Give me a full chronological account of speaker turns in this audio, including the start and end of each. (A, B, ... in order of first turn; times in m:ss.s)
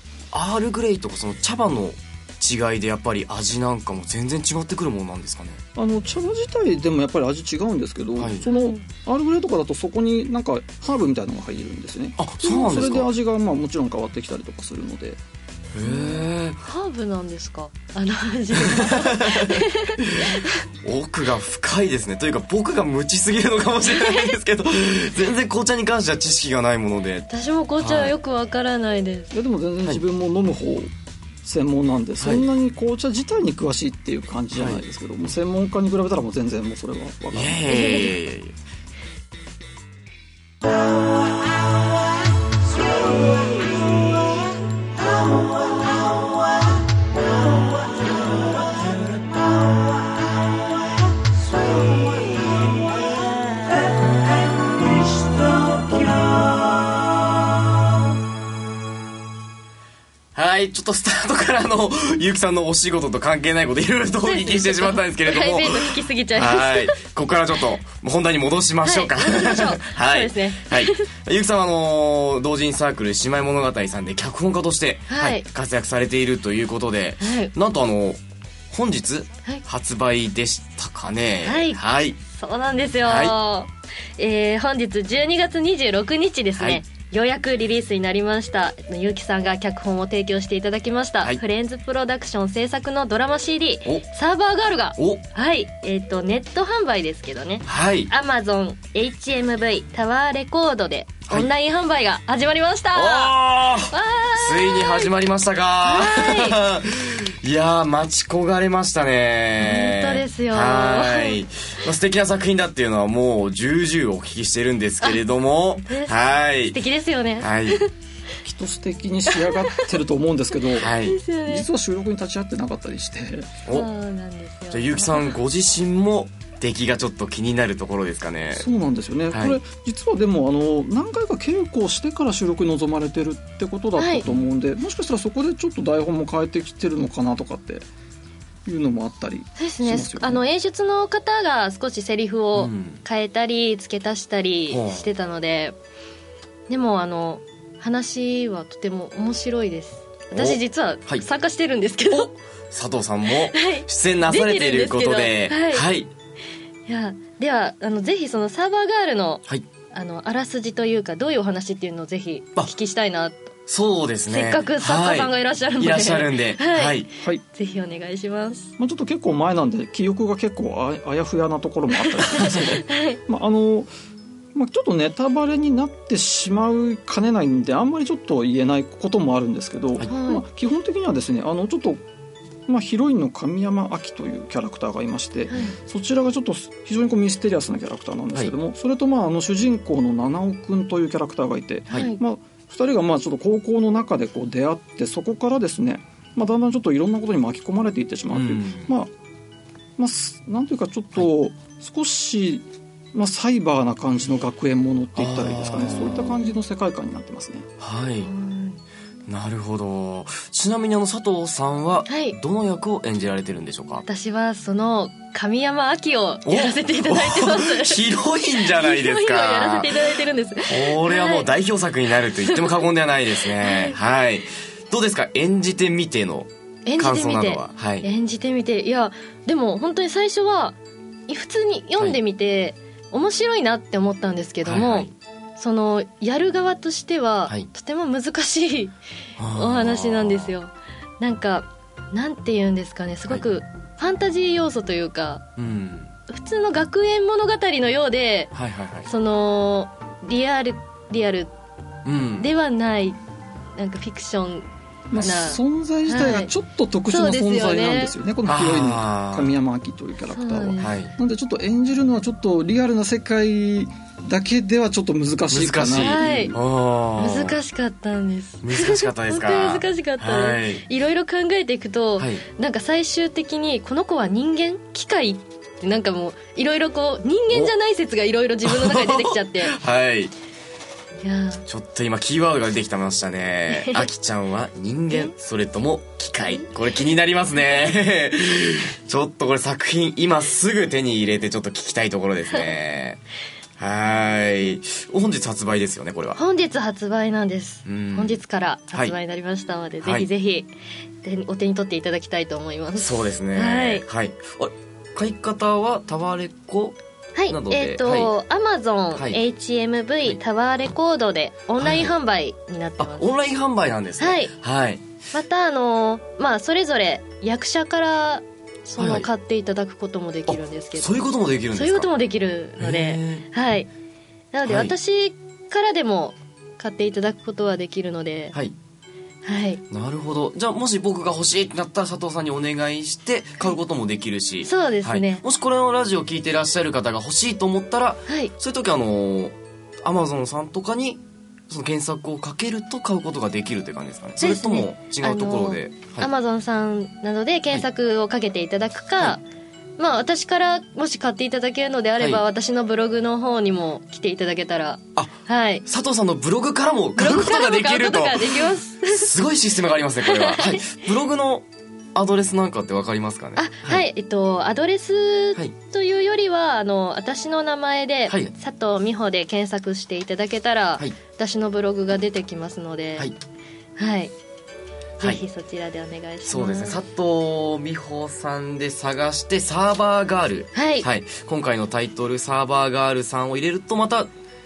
0:00.3-0:05.6 A
0:05.8-0:15.2 B
0:08.2-0:08.5 A
0:08.5-0:08.8 C
0:12.2-0:13.1 A
0:12.7-0:13.0 C
0:15.7-0:16.6 A
0:15.8-0:20.6 C
0:18.6-0:19.6 A
0:20.2-0:27.3 A
0:23.9-0:24.3 C
0:27.3-0:29.3 C
0:27.8-0:28.2 A
0:29.3-0:30.9 B
0:31.4-0:37.7 B
0:32.2-0:32.5 A
0:34.5-0:34.8 A
0:37.3-0:38.5 A
0:37.7-0:38.1 C
1:00.4-1:18.2 A
1:04.2-1:07.0 C
1:08.8-1:11.1 C
1:15.1-1:15.4 C
1:17.2-1:17.5 C
1:18.7-1:22.2 A
1:21.4-1:43.4 C
1:23.0-1:23.4 A
1:26.6-1:26.8 A
1:35.0-1:35.2 A
1:37.7-1:38.1 A
1:42.9-1:56.8 A
1:43.9-1:45.1 C
1:45.8-1:46.6 C
1:49.6-1:51.4 C
1:55.9-1:56.2 C
1:56.7-1:57.9 C
1:57.4-1:57.8 A
1:58.4-2:03.5 B
1:59.3-2:00.0 C
2:00.7-2:01.7 C
2:00.7-2:01.2 A
2:03.7-2:05.4 C
2:04.7-2:08.7 A
2:08.5-2:17.9 B
2:09.3-2:09.6 A
2:14.0-2:14.2 C
2:14.2-2:14.5 A
2:18.7-2:20.4 B
2:19.6-2:25.8 C
2:22.6-2:23.0 A
2:24.7-2:25.1 A
2:26.7-2:32.3 C
2:30.3-2:31.2 A
2:32.1-2:36.1 A
2:33.4-2:35.9 C
2:36.9-2:43.5 C
2:43.7-2:47.1 A
2:44.3-2:48.7 C
2:48.8-2:53.9 B
2:52.0-2:53.2 C
2:54.6-3:02.0 B
3:00.0-3:00.4 C
3:02.7-3:19.1 B
3:05.5-3:05.8 C
3:11.9-3:12.2 C
3:18.3-3:18.9 A
3:20.0-3:27.7 B
3:25.2-3:26.4 A
3:27.8-3:28.3 A
3:28.2-3:28.8 C
3:29.3-3:34.0 A
3:32.1-3:32.4 C
3:34.0-3:41.5 C
3:36.4-3:48.1 A
3:42.4-3:42.8 C
3:43.4-3:44.0 C
3:46.9-3:58.9 C
3:54.6-3:55.1 A
3:59.4-4:00.5 A
3:59.5-4:05.4 C
4:05.6-4:06.1 A
4:06.3-4:08.5 C
4:08.5-4:09.1 A
4:09.1-4:11.5 C
4:12.0-4:12.5 A
4:12.4-4:13.2 C
4:13.8-4:16.5 C
4:15.1-4:26.6 B
4:17.1-4:18.1 C
4:18.4-4:19.6 A
4:20.3-4:20.9 C
4:20.8-4:21.1 A
4:25.5-4:27.6 A
4:26.0-4:26.6 C
4:27.2-4:39.7 C
4:28.6-4:30.8 A
4:32.2-4:32.4 A
4:38.6-4:40.3 A
4:41.2-4:41.6 C
4:41.7-4:53.2 A
4:43.7-4:44.1 C
4:53.8-4:56.4 A
4:56.4-5:00.7 C
4:57.9-4:58.4 A
5:01.2-5:04.0 C
5:03.0-5:07.0 A
5:07.4-5:13.3 C
5:07.5-5:08.3 A
5:11.8-5:12.1 A
5:13.0-5:15.0 A
5:14.2-5:14.5 C
5:15.3-5:23.9 C
5:19.0-5:19.3 A
5:20.5-5:22.1 A
5:22.8-5:23.4 A
5:24.5-5:28.6 C
5:24.6-5:24.9 A
5:29.4-5:29.8 C
5:29.9-5:46.3 A
5:34.6-5:35.4 C
5:38.3-5:38.5 C
5:44.4-5:49.4 C
5:50.0-5:55.8 C
5:55.9-6:04.0 A
5:57.2-5:59.3 C
6:00.2-6:00.9 C
6:03.6-6:13.3 C
6:14.0-6:14.3 C
6:15.2-6:17.0 C
6:16.4-6:24.3 A
6:20.7-6:21.1 C